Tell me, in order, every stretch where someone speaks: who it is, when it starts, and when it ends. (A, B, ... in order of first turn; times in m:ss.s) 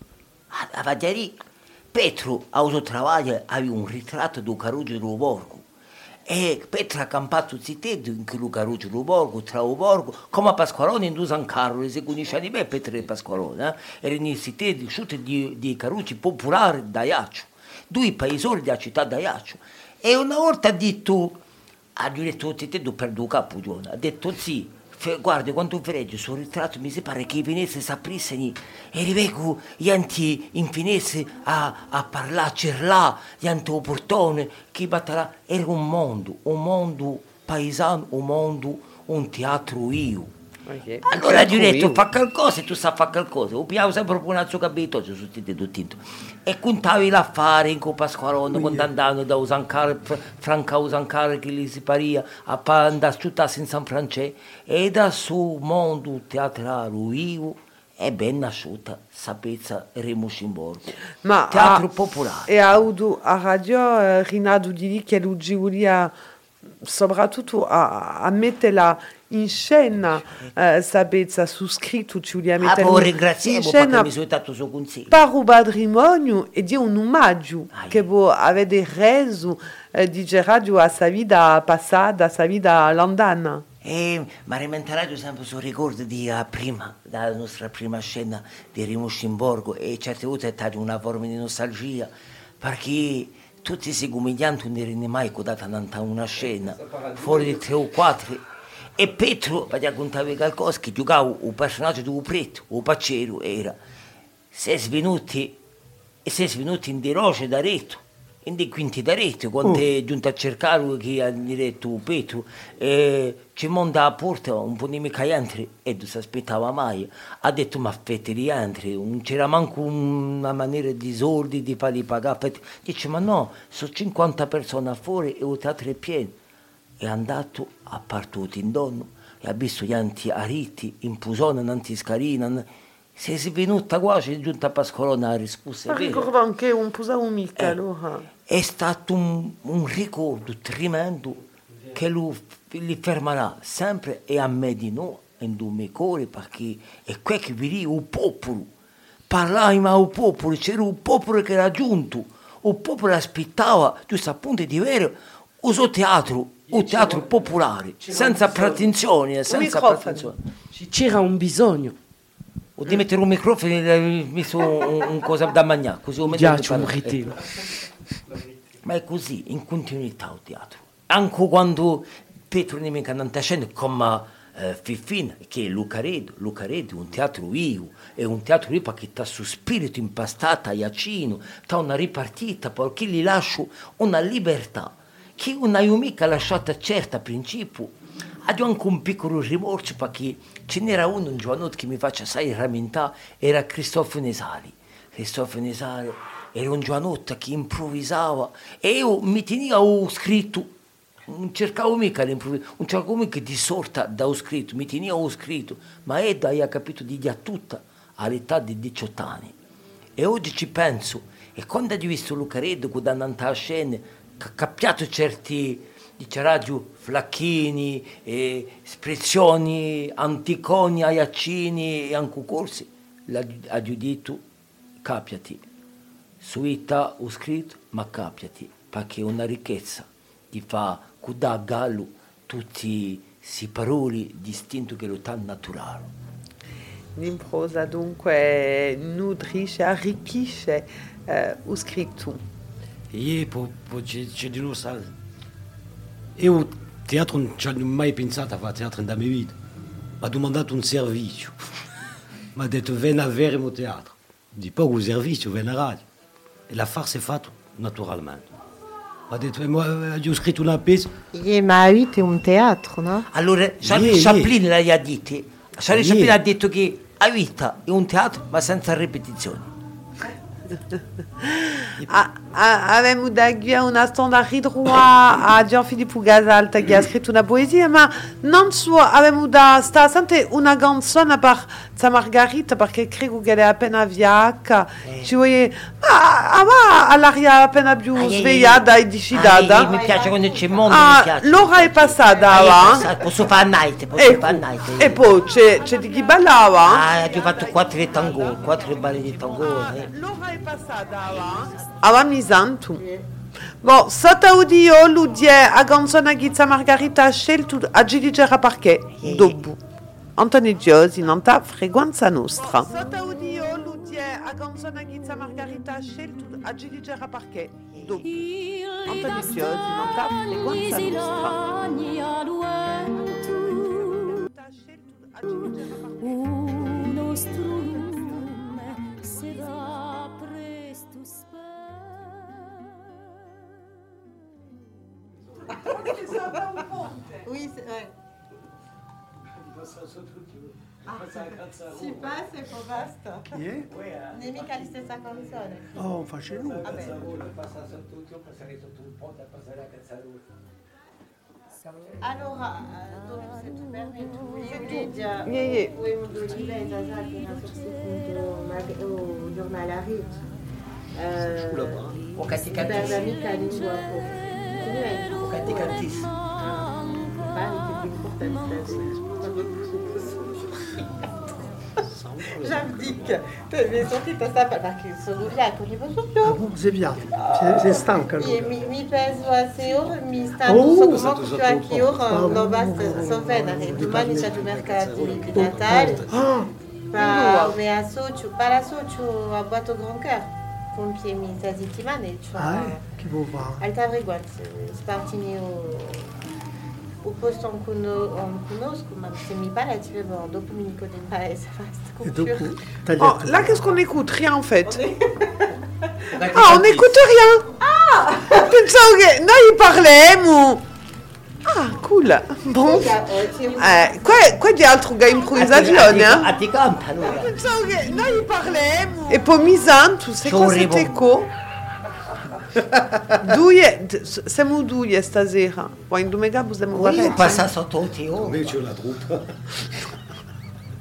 0:00.5-0:01.4 A
0:01.9-0:05.6 A
0:06.3-0:21.4 A
0:22.0-0:40.3 A
0:40.7-0:42.0 B
0:41.0-1:00.9 A
1:01.2-1:01.8 B
1:01.5-1:02.5 A
1:02.5-1:06.1 B
1:06.8-1:14.1 B
1:12.6-1:15.2 A
1:15.1-1:23.6 B
1:17.7-1:18.1 A
1:23.8-1:38.4 A
1:36.4-1:37.7 C
1:39.0-1:43.8 A
1:44.5-1:45.6 A
1:46.2-2:06.3 A
2:07.0-2:16.3 A
2:15.9-2:18.2 B
2:18.4-2:21.4 A
2:21.9-2:28.7 A
2:29.3-2:40.4 A
2:36.7-2:39.0 C
2:39.5-2:40.3 B
2:40.7-2:42.0 C
2:42.8-2:47.3 A
2:46.2-2:47.5 C
2:48.8-3:20.7 A
3:21.3-3:29.5 A
3:30.2-3:44.4 A
3:45.0-3:45.6 A
3:46.4-3:56.1 A
3:57.2-4:02.4 B
4:03.1-4:05.1 D
4:06.4-4:09.6 D
4:10.2-4:11.6 D
4:12.5-4:16.0 D
4:16.7-4:18.5 D
4:19.3-4:21.1 D
4:21.3-4:23.3 E
4:23.3-4:29.7 A
4:23.8-4:24.5 D
4:25.9-4:26.4 D
4:31.4-4:49.9 B
4:45.0-4:45.3 A
4:48.1-4:55.2 A
4:49.8-4:51.0 E
4:50.9-4:53.0 B
4:54.2-4:57.8 B
4:56.8-5:00.1 A
4:58.4-4:58.8 B
4:59.6-5:03.0 B
5:03.8-5:09.8 B
5:09.2-5:09.6 A
5:10.4-5:21.8 B
5:17.9-5:18.2 A
5:23.6-5:26.8 B
5:35.8-5:36.8 E
5:36.1-5:37.2 C
5:37.4-5:38.1 E
5:41.0-5:43.6 E
5:43.5-5:43.9 F
5:44.3-5:46.0 E
5:45.9-5:47.0 F
5:46.8-5:47.2 E
5:47.1-5:47.8 D
5:52.2-6:00.3 E
5:54.9-5:55.9 B
6:01.1-6:11.1 E
6:01.5-6:01.9 D
6:02.4-6:03.3 A
6:05.4-6:06.3 A
6:12.4-6:12.9 D
6:12.6-6:16.6 E
6:16.4-6:18.7 F
6:17.6-6:26.2 E
6:20.6-6:21.3 F
6:21.0-6:22.4 D
6:22.2-6:24.6 F
6:23.9-6:26.3 D
6:25.6-6:26.7 F
6:27.1-6:33.0 E
6:27.1-6:27.7 B
6:32.5-6:33.8 F
6:33.8-6:36.3 E
6:37.2-6:42.7 E
6:42.2-6:43.8 F
6:43.2-6:45.1 B
6:45.0-6:45.7 E
6:46.3-6:47.2 A
6:46.5-6:47.7 B
6:47.8-6:48.7 E
6:48.4-6:50.8 B
6:51.6-6:53.2 B
6:52.8-6:54.5 E
6:53.8-6:56.5 B
6:55.5-6:57.5 A
6:57.2-7:01.5 B
7:00.4-7:01.3 A
7:03.4-7:07.6 B
7:06.9-7:08.8 A
7:08.4-7:09.6 D